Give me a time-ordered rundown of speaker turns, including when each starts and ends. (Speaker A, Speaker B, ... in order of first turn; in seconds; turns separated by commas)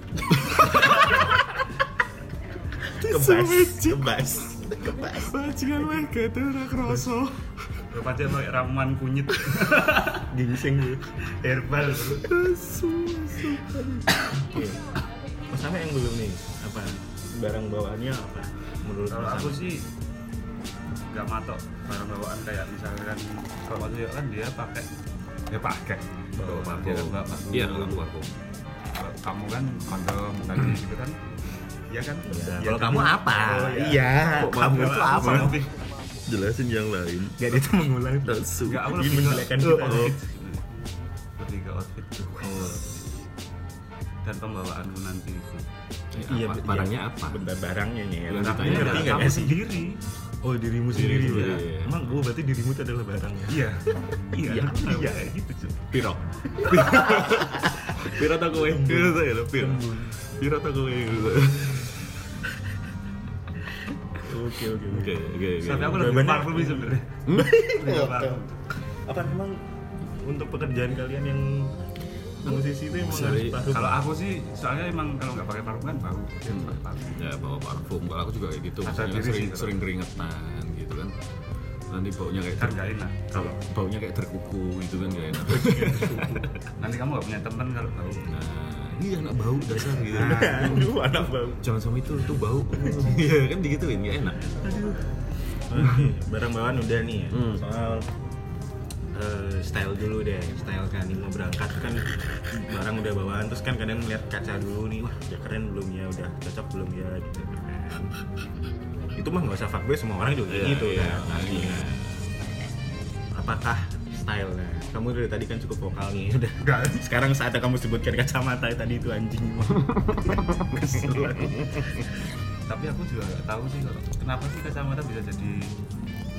Speaker A: 0.3-1.1, Speaker A: 3.0-4.3, Speaker B: 3.0-5.3, Speaker A: 4.9-7.5, Speaker C: 7.9-10.3, Speaker B: 10.3-11.0, Speaker C: 11.2-12.3, Speaker A: 12.2-14.1, Speaker B: 14.3-14.8, Speaker B: 15.5-19.7, Speaker C: 19.1-19.9, Speaker C: 21.1-24.9, Speaker C: 25.5-28.0, Speaker B: 26.4-26.7, Speaker A: 26.5-28.3, Speaker C: 28.9-31.2, Speaker C: 31.9-34.2, Speaker B: 32.3-35.5, Speaker A: 34.2-35.6, Speaker C: 34.8-35.7, Speaker A: 36.2-37.6, Speaker B: 37.3-40.1, Speaker A: 38.2-40.2, Speaker C: 38.6-40.6, Speaker C: 41.4-43.1, Speaker A: 42.4-42.9, Speaker B: 42.4-42.8, Speaker C: 44.2-45.7, Speaker A: 46.1-47.4, Speaker B: 46.2-49.6, Speaker A: 48.3-49.4, Speaker C: 48.4-50.0, Speaker B: 50.4-53.6, Speaker A: 50.9-52.1, Speaker C: 51.3-51.6, Speaker C: 53.5-55.8, Speaker B: 54.4-55.3, Speaker A: 55.9-62.1, Speaker B: 56.5-60.0, Speaker B: 64.2-65.2, Speaker A: 64.8-66.3, Speaker C: 65.6-68.6, Speaker B: 66.0-68.4, Speaker A: 67.2-67.6, Speaker B: 68.9-69.6, Speaker B: 70.2-71.8, Speaker B: 72.4-74.0, Speaker A: 72.5-73.7, Speaker C: 73.7-77.2, Speaker A: 76.5-81.1, Speaker C: 78.8-79.8, Speaker A: 81.9-82.8, Speaker C: 82.5-83.6, Speaker A: 83.3-86.5, Speaker B: 85.5-86.5, Speaker C: 86.7-88.3, Speaker A: 88.3-95.0, Speaker C: 90.1-90.8, Speaker B: 90.1-91.6, Speaker B: 95.7-98.1, Speaker A: 95.7-96.0, Speaker A: 97.3-97.6, Speaker B: 99.1-108.1, Speaker B: 109.2-111.9, Speaker A: 110.5-112.2, Speaker B: 113.3-121.6, Speaker C: 116.6-117.1, Speaker A: 119.7-122.0, Speaker C: 122.7-125.7